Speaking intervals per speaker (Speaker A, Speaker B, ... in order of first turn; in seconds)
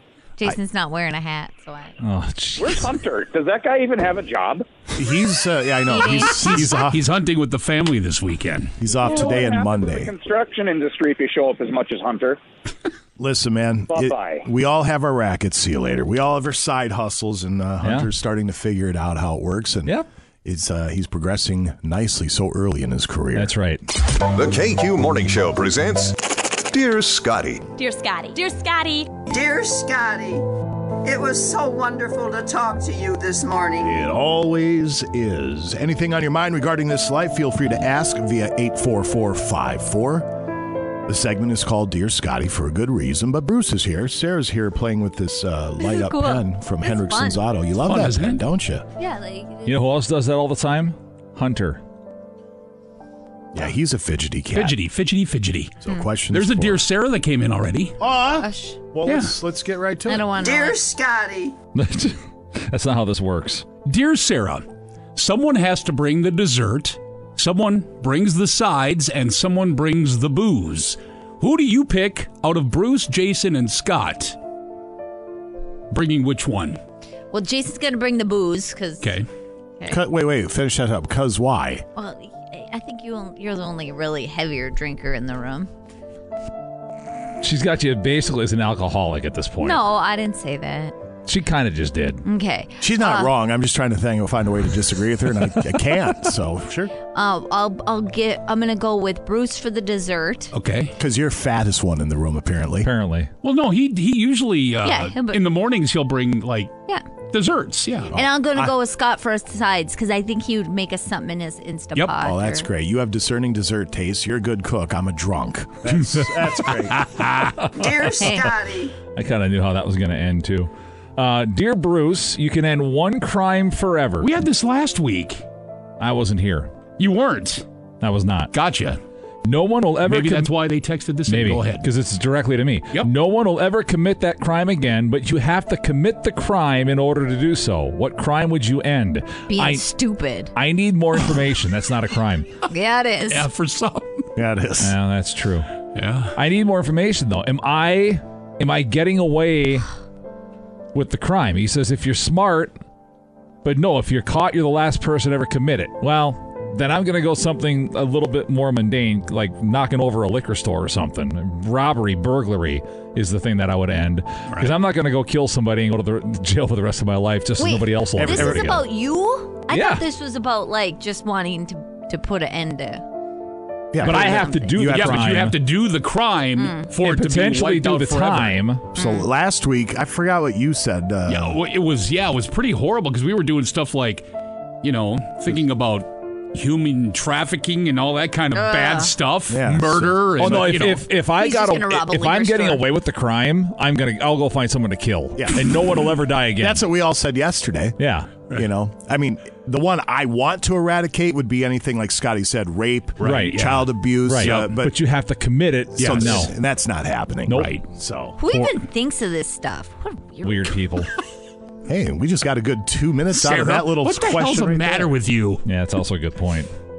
Speaker A: 0.4-1.9, 5.9-6.8, 27.8-28.9, 45.8-47.4, 49.0-49.9, 55.9-56.1, 58.4-58.8, 60.1-60.8, 77.3-79.1, 82.0-85.7, 89.6-90.9, 92.2-93.3, 97.1-100.5, 104.8-105.4, 108.1-112.7, 118.2-118.5, 139.5-140.5, 142.7-143.5, 167.6-173.0, 174.0-175.0, 176.6-176.9, 178.9-179.3, 188.5-189.1, 191.3-192.8, 208.4-210.8
Speaker B: 2.0-2.9, 17.8-18.1, 23.4-23.8, 49.7-51.8, 61.8-62.2, 62.7-63.7, 87.4-89.8, 91.3-92.2, 102.8-103.3, 117.6-118.5, 119.2-124.3, 126.0-126.7, 128.0-128.5, 129.5-130.5, 131.3-139.8, 140.6-142.5, 144.8-145.7, 146.4-149.9, 150.9-152.8, 153.6-168.9, 169.7-170.0, 174.0-175.6, 177.0-178.9, 190.4-196.8, 198.0-198.4, 203.2-203.7, 204.3-206.5, 207.5-207.7, 210.4-211.1, 215.7-216.7
Speaker C: 2.6-4.7, 9.0-12.4, 13.9-14.5
Speaker D: 5.0-7.0, 8.8-10.1, 13.2-23.5, 33.8-40.4, 41.1-48.9, 53.5-54.8, 55.8-56.9, 58.0-60.3, 79.9-81.8, 92.8-96.9, 101.0-102.9, 108.1-108.7, 112.1-117.0, 144.4-145.0, 168.2-168.8, 173.9-175.3, 178.9-181.6, 189.5-190.6, 195.4-195.8, 196.6-198.0, 198.5-204.9, 206.0-208.7, 211.9-215.2
Speaker E: 6.4-8.7, 47.9-48.4, 54.5-55.8, 56.3-58.0, 59.1-59.3, 63.9-74.4, 75.9-76.8, 79.0-79.3, 100.5-100.9, 103.4-106.7, 107.3-108.1, 115.9-117.6, 124.2-125.4, 127.0-127.6, 128.5-129.0, 130.0-131.9, 143.3-144.2, 145.9-146.4, 174.9-178.6, 181.3-184.3, 184.8-191.1, 203.2-203.9, 204.4-204.7, 206.0-206.5, 213.3-215.6
Speaker F: 24.3-26.1, 26.7-27.7
Speaker G: 29.3-30.4, 31.1-33.9, 60.4-61.5, 117.8-118.9